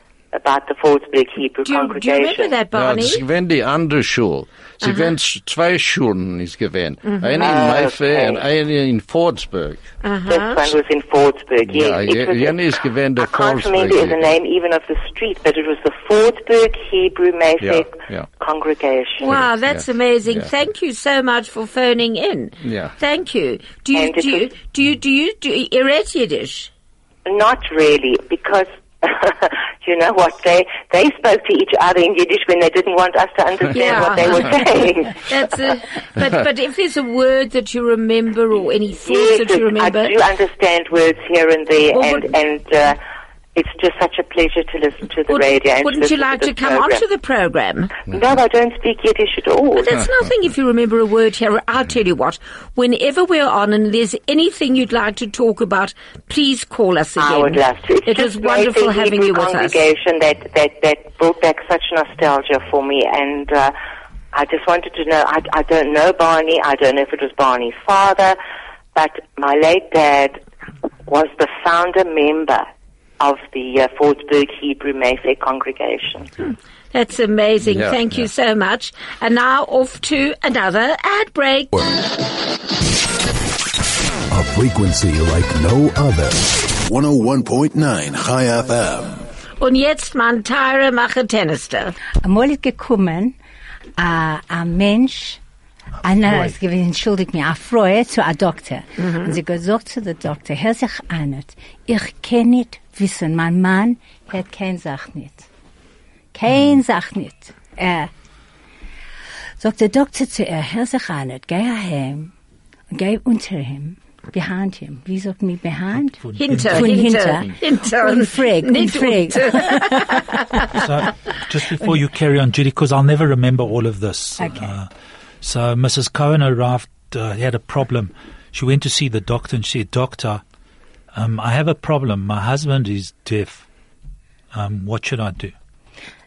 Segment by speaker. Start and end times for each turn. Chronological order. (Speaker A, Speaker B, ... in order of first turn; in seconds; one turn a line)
Speaker A: 0.3-2.5
Speaker B: 1.6-3.2
Speaker C: 2.7-9.8
Speaker B: 4.8-5.1
Speaker B: 7.0-7.8
Speaker A: 7.4-8.4
Speaker B: 10.0-10.6
Speaker A: 10.3-12.6
Speaker C: 11.7-14.2
Speaker A: 13.2-19.4
Speaker C: 17.6-18.3
Speaker B: 19.2-26.7
Speaker C: 19.3-20.5
Speaker C: 22.6-22.9
Speaker A: 23.9-24.5
Speaker A: 27.2-35.3
Speaker B: 33.7-40.1
Speaker A: 39.0-43.0
Speaker B: 41.9-42.3
Speaker A: 43.5-47.0
Speaker B: 45.3-47.9
Speaker A: 48.1-50.0
Speaker B: 49.7-59.8
Speaker A: 57.2-63.7
Speaker A: 64.3-68.4
Speaker A: 68.9-70.4
Speaker A: 71.0-72.7
Speaker A: 73.2-76.3
Speaker B: 76.9-81.8
Speaker C: 77.7-78.1
Speaker D: 84.3-89.2
Speaker B: 89.6-92.0
Speaker E: 92.2-93.3
Speaker E: 94.0-95.4
Speaker E: 96.0-105.5
Speaker B: 99.0-99.3
Speaker E: 106.3-108.1
Speaker E: 109.6-112.3
Speaker E: 112.9-120.1
Speaker F: 116.1-117.0
Speaker B: 116.4-120.3
Speaker F: 120.7-124.9
Speaker F: 125.4-130.4
Speaker F: 131.1-133.6
Speaker F: 134.5-135.5